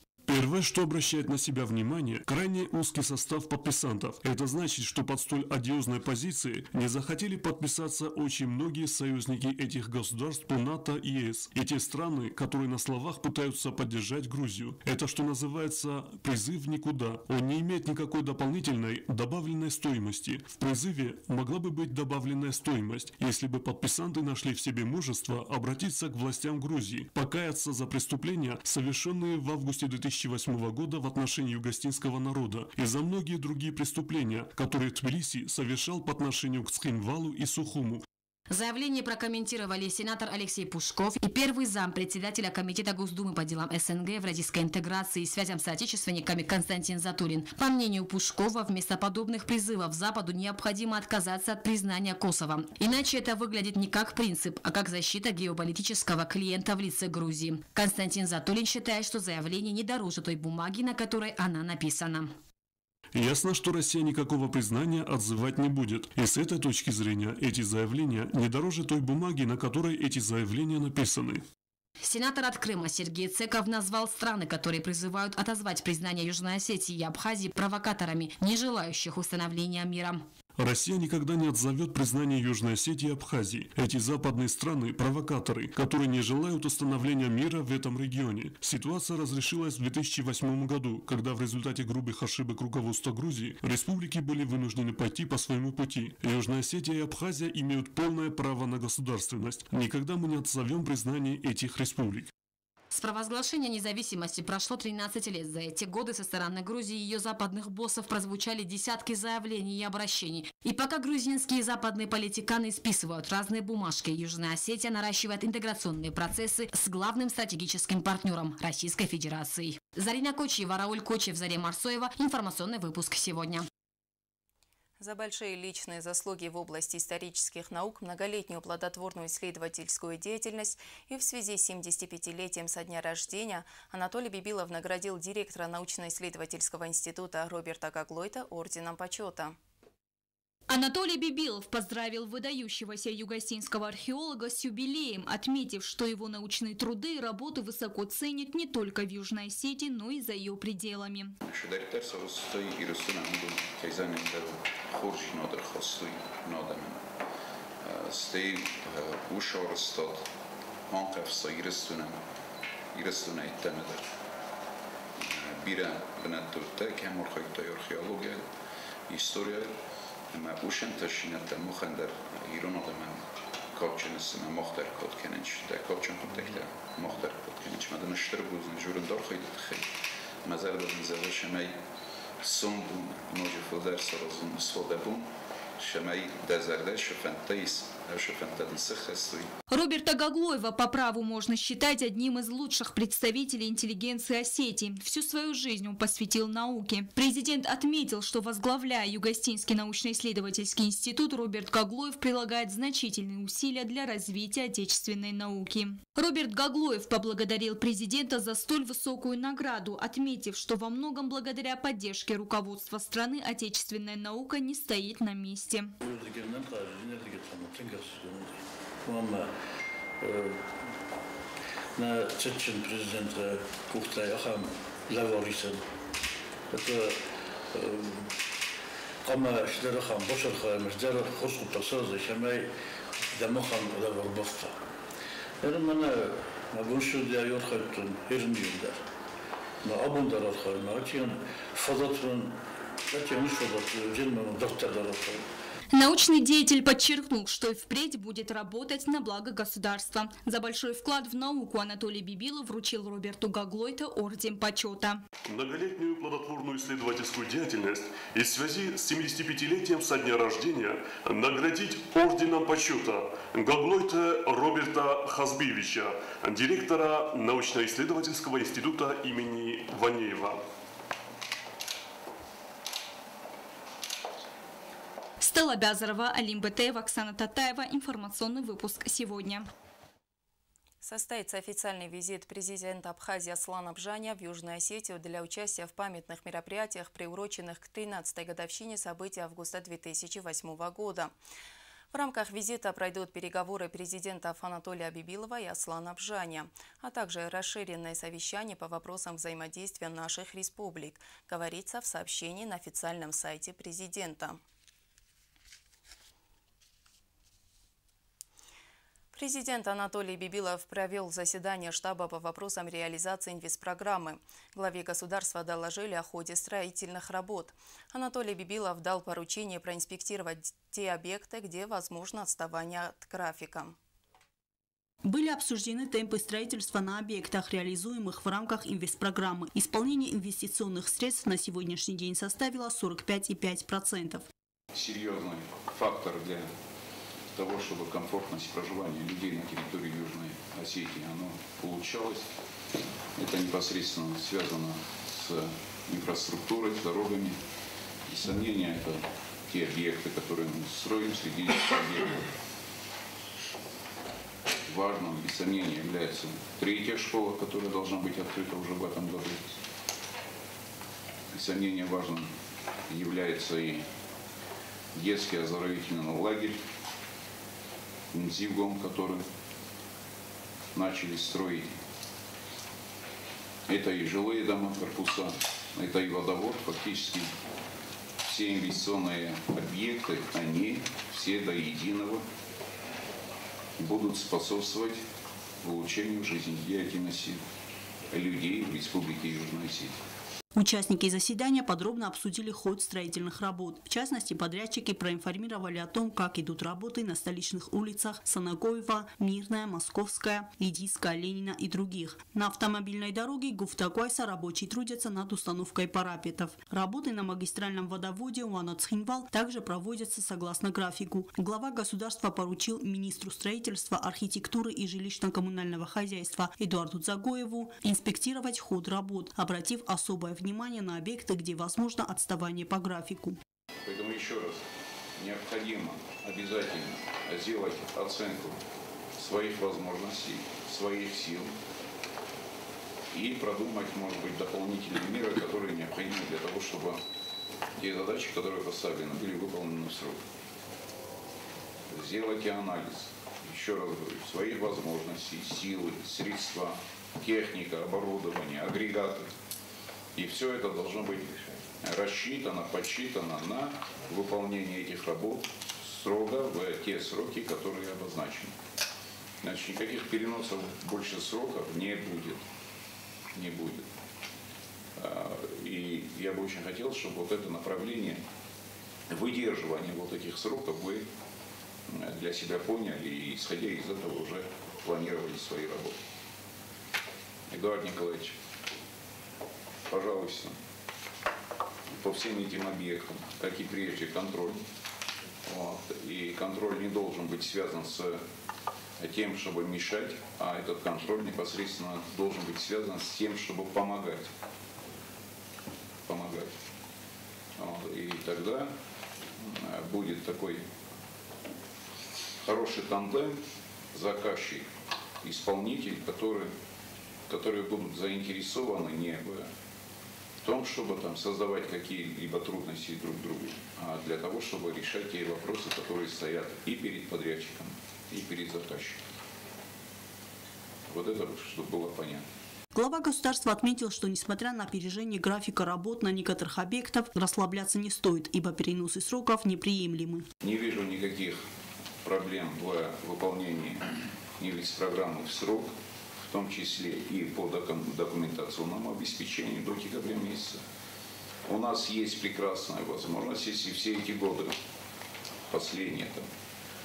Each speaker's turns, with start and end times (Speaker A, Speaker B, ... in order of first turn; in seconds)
Speaker A: 0.3-38.0, 63.1-71.5, 80.6-102.3, 255.4-270.6
Speaker B: 38.5-62.3, 72.0-80.2, 102.9-123.7
Speaker C: 125.0-139.6, 281.0-291.3, 292.1-304.6, 309.3-324.0
Speaker D: 140.7-151.3, 189.7-215.9, 245.9-255.2, 275.4-279.7
Speaker E: 151.4-157.0, 157.8-160.3, 160.9-162.2, 162.9-164.1, 165.2-168.4, 169.1-169.7, 170.3-179.9, 180.4-181.8, 182.4-189.5, 334.9-336.7, 337.6-342.5, 343.4-347.6, 348.3-352.4, 354.9-359.8, 361.5-362.5, 363.1-364.0, 365.1-366.8, 368.3-369.4, 370.9-371.9, 373.9-377.5, 378.4-382.4, 384.0-385.2, 385.8-387.6, 388.3-390.2, 424.0-424.8, 425.4-428.8, 429.4-431.8, 433.3-437.2, 437.9-440.4, 442.1-449.5, 450.4-458.8, 459.6-462.6, 463.5-464.1, 465.2-468.4, 469.3-471.3, 472.1-476.2, 477.7-478.6, 480.1-480.8, 482.1-484.9, 485.6-488.4, 489.2-494.5, 496.3-496.7, 497.8-498.9, 499.6-500.9, 502.6-504.9, 505.4-506.7, 507.5-509.7, 510.6-519.2, 521.1-522.4, 530.6-531.6, 532.2-540.8, 541.7-544.8, 545.7-546.5
Speaker F: 216.0-219.5, 220.2-220.7, 222.0-225.8, 226.7-227.2, 227.7-228.3, 229.2-232.7, 233.3-234.8, 235.6-239.0, 239.8-242.6, 243.1-245.5
Speaker G: 325.2-334.5, 390.8-423.6, 522.9-530.5